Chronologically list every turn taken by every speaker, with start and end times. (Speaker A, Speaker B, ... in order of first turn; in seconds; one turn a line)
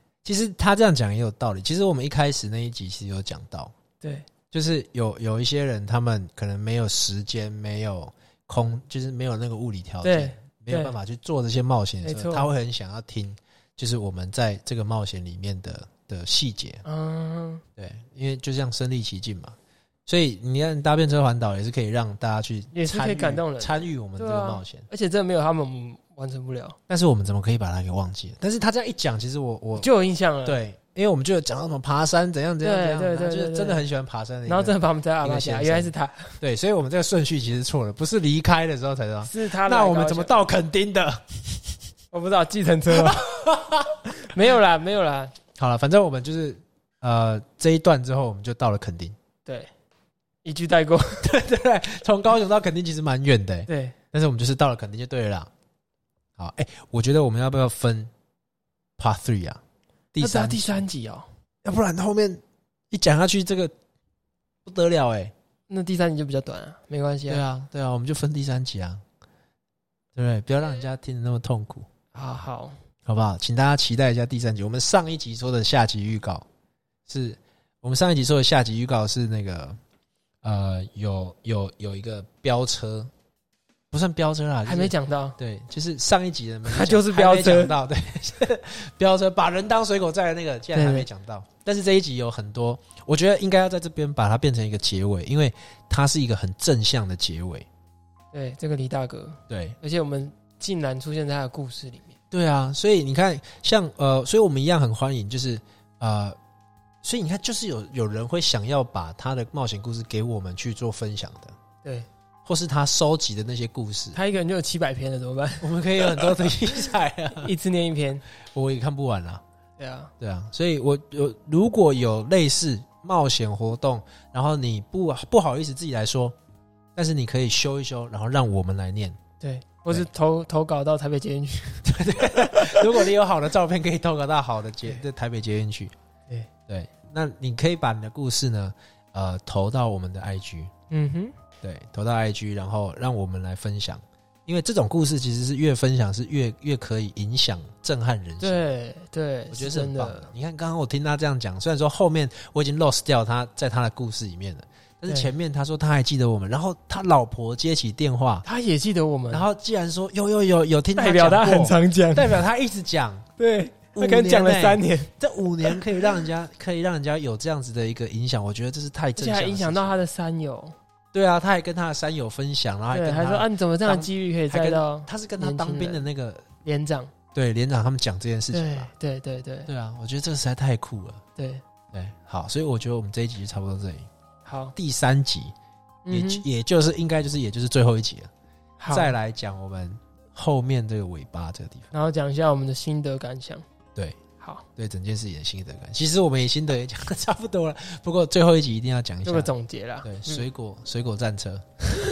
Speaker A: 0.2-3.7
Speaker B: 4.0-4.3
Speaker A: 4.5-16.8
Speaker B: 10.0-10.9
Speaker B: 12.0-12.5
Speaker B: 16.8-17.6
Speaker A: 17.8-24.8
Speaker B: 22.7-26.8
Speaker A: 26.9-29.9
Speaker B: 29.8-30.6
Speaker A: 30.4-41.6
Speaker B: 32.6-33.8
Speaker B: 34.5-36.4
Speaker B: 39.2-40.3
Speaker B: 42.1-43.2
Speaker A: 42.9-44.0
Speaker B: 44.2-45.3
Speaker A: 45.5-49.1
Speaker B: 50.4-51.2
Speaker A: 51.2-55.5
Speaker B: 53.7-54.0
Speaker A: 56.4-58.1
Speaker A: 59.0-59.6
Speaker A: 60.1-60.8
Speaker B: 60.2-61.3
Speaker A: 61.6-63.7
Speaker A: 64.6-65.3
Speaker B: 65.7-67.4
Speaker A: 67.3-69.0
Speaker A: 70.2-71.9
Speaker B: 72.1-72.8
Speaker A: 73.0-76.4
Speaker A: 77.1-79.8
Speaker A: 80.4-83.1
Speaker A: 83.9-97.7
Speaker B: 84.7-85.4
Speaker B: 86.7-87.7
Speaker B: 90.7-91.1
Speaker B: 98.3-102.2
Speaker A: 99.5-99.8
Speaker A: 102.3-106.4
Speaker A: 107.0-111.5
Speaker A: 112.4-114.2
Speaker B: 114.1-116.4
Speaker A: 115.6-117.5
Speaker B: 117.3-118.2
Speaker A: 118.5-119.4
Speaker B: 119.8-120.1
Speaker A: 120.2-126.3
Speaker A: 127.0-129.2
Speaker B: 129.4-131.9
Speaker A: 131.8-135.9
Speaker B: 132.4-132.9
Speaker A: 136.7-140.7
Speaker B: 140.9-141.3
Speaker A: 141.6-148.6
Speaker B: 148.4-150.3
Speaker A: 149.5-158.4
Speaker B: 155.1-155.3
Speaker B: 158.4-159.4
Speaker A: 159.3-163.3
Speaker B: 161.0-162.4
Speaker B: 163.4-165.8
Speaker A: 163.9-170.0
Speaker B: 169.2-170.7
Speaker A: 171.1-176.5
Speaker B: 172.9-176.0
Speaker B: 176.6-177.1
Speaker A: 177.3-178.9
Speaker B: 178.5-179.7
Speaker A: 179.7-181.2
Speaker B: 181.3-181.6
Speaker A: 181.9-184.1
Speaker B: 184.4-184.7
Speaker A: 184.7-185.5
Speaker B: 186.1-186.4
Speaker A: 186.1-188.3
Speaker B: 188.8-189.1
Speaker A: 188.9-191.9
Speaker B: 191.9-193.6
Speaker B: 194.4-194.6
Speaker A: 194.8-199.5
Speaker B: 199.2-200.4
Speaker A: 200.0-201.8